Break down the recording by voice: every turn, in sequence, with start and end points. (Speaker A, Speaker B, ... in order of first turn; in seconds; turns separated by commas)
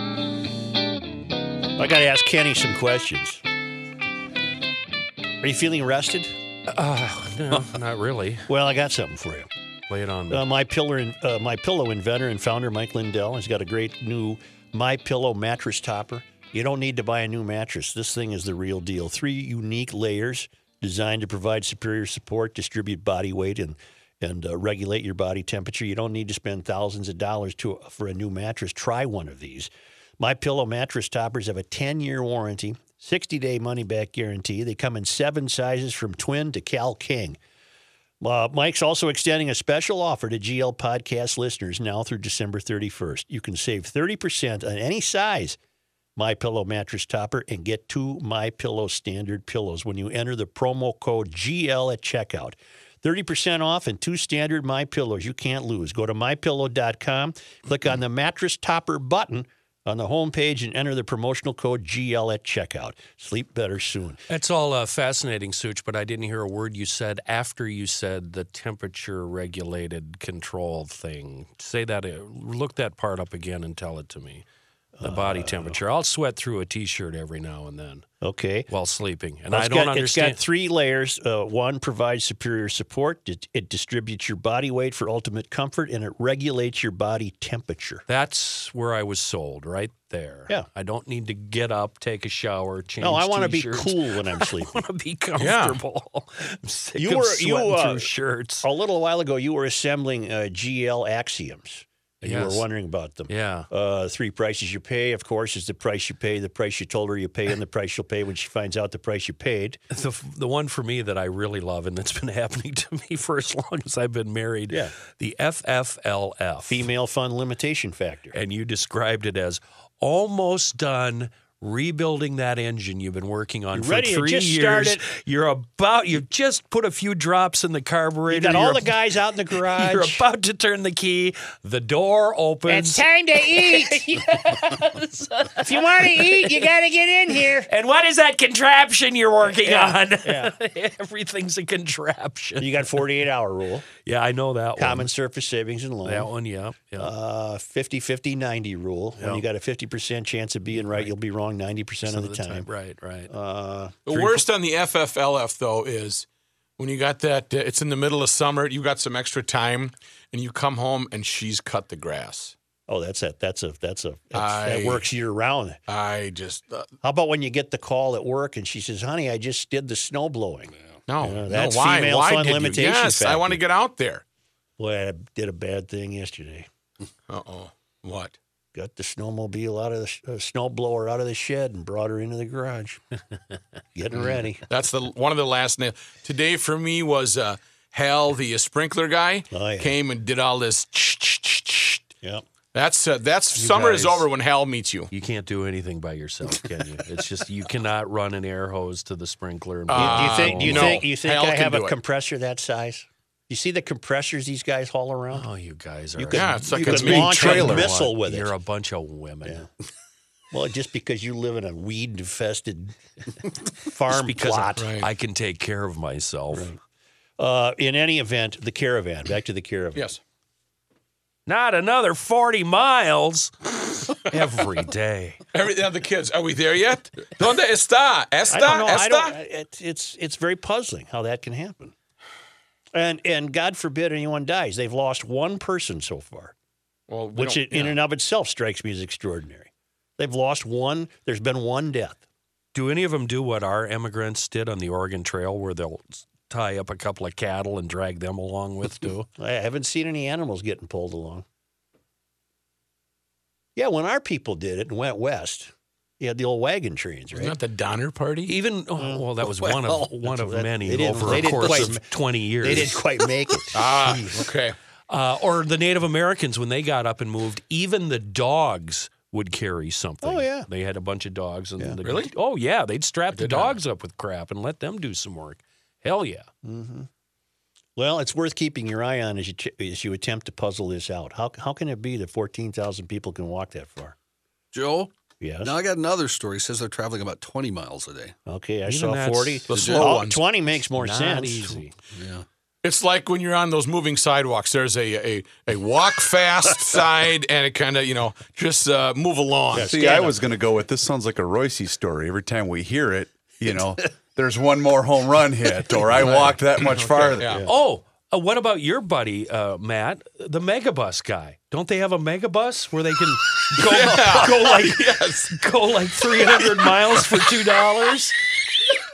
Speaker A: 1.8-3.4, Speaker A: 5.4-6.3, Speaker B: 6.7-8.5, Speaker A: 8.5-9.5, Speaker B: 9.9-10.4, Speaker A: 10.3-37.4, Speaker A: 38.2-45.6, Speaker A: 46.2-64.2, Speaker B: 64.3-74.4, Speaker A: 75.0-75.8, Speaker B: 75.0-78.1, Speaker A: 78.2-78.7, Speaker B: 78.7-80.4, Speaker A: 79.5-88.0, Speaker B: 88.1-98.7, Speaker A: 93.0-94.8, Speaker C: 95.4-95.8, Speaker A: 97.0-98.1, Speaker A: 98.6-109.8, Speaker B: 102.2-102.7, Speaker B: 103.3-103.7, Speaker B: 109.9-116.8, Speaker A: 114.7-114.9, Speaker A: 116.7-118.3, Speaker B: 118.3-128.9, Speaker A: 123.7-125.0, Speaker A: 128.3-130.2, Speaker B: 129.7-136.7, Speaker A: 132.7-134.8, Speaker A: 135.6-137.7, Speaker B: 137.7-143.0, Speaker A: 139.6-140.5, Speaker A: 142.6-143.9, Speaker B: 144.0-145.1, Speaker A: 144.8-146.3, Speaker B: 146.0-147.1, Speaker A: 147.0-152.7, Speaker B: 149.2-149.4, Speaker B: 150.7-151.1, Speaker B: 152.1-153.3, Speaker A: 153.3-154.4, Speaker C: 154.1-156.3, Speaker C: 156.8-162.5, Speaker A: 162.9-165.8, Speaker C: 164.3-165.1, Speaker C: 165.9-166.9, Speaker A: 167.0-173.6, Speaker C: 171.1-174.2, Speaker A: 174.8-176.7, Speaker C: 177.3-178.3, Speaker A: 178.8-183.0, Speaker A: 183.9-184.6, Speaker C: 184.7-192.1, Speaker A: 189.5-189.9, Speaker C: 192.7-195.1, Speaker B: 193.6-194.3, Speaker B: 195.1-201.0, Speaker C: 199.9-202.0, Speaker A: 199.9-205.5, Speaker B: 205.3-209.7, Speaker A: 206.2-208.5, Speaker C: 206.3-207.9, Speaker D: 206.7-207.9, Speaker A: 210.5-212.9, Speaker A: 213.7-215.0, Speaker B: 214.1-216.7, Speaker C: 214.8-215.1, Speaker A: 216.5-216.8, Speaker A: 217.4-220.1, Speaker C: 219.9-220.2, Speaker B: 221.5-225.4, Speaker C: 225.5-229.4, Speaker A: 228.5-231.9, Speaker A: 232.9-236.5, Speaker C: 237.1-238.0, Speaker A: 237.4-242.2, Speaker B: 242.7-249.3, Speaker A: 249.4-251.4, Speaker A: 253.8-257.6, Speaker C: 257.3-258.5, Speaker B: 258.4-263.0, Speaker A: 259.0-259.2, Speaker E: 259.6-260.1, Speaker A: 260.2-264.5, Speaker C: 263.7-264.8, Speaker B: 265.1-276.5, Speaker A: 270.2-270.7, Speaker C: 272.0-272.3, Speaker C: 273.3-273.8, Speaker A: 276.6-277.1, Speaker A: 278.0-284.1, Speaker E: 284.7-285.1, Speaker A: 285.4-285.7, Speaker E: 285.6-288.4, Speaker A: 288.5-291.8, Speaker B: 288.9-289.7, Speaker C: 289.7-290.4, Speaker E: 289.7-290.1, Speaker B: 291.0-291.9, Speaker E: 292.1-292.4, Speaker C: 292.8-299.9, Speaker A: 299.7-300.4, Speaker D: 299.7-307.5, Speaker C: 306.1-307.6, Speaker A: 307.4-307.7, Speaker B: 307.6-318.4, Speaker C: 313.8-315.6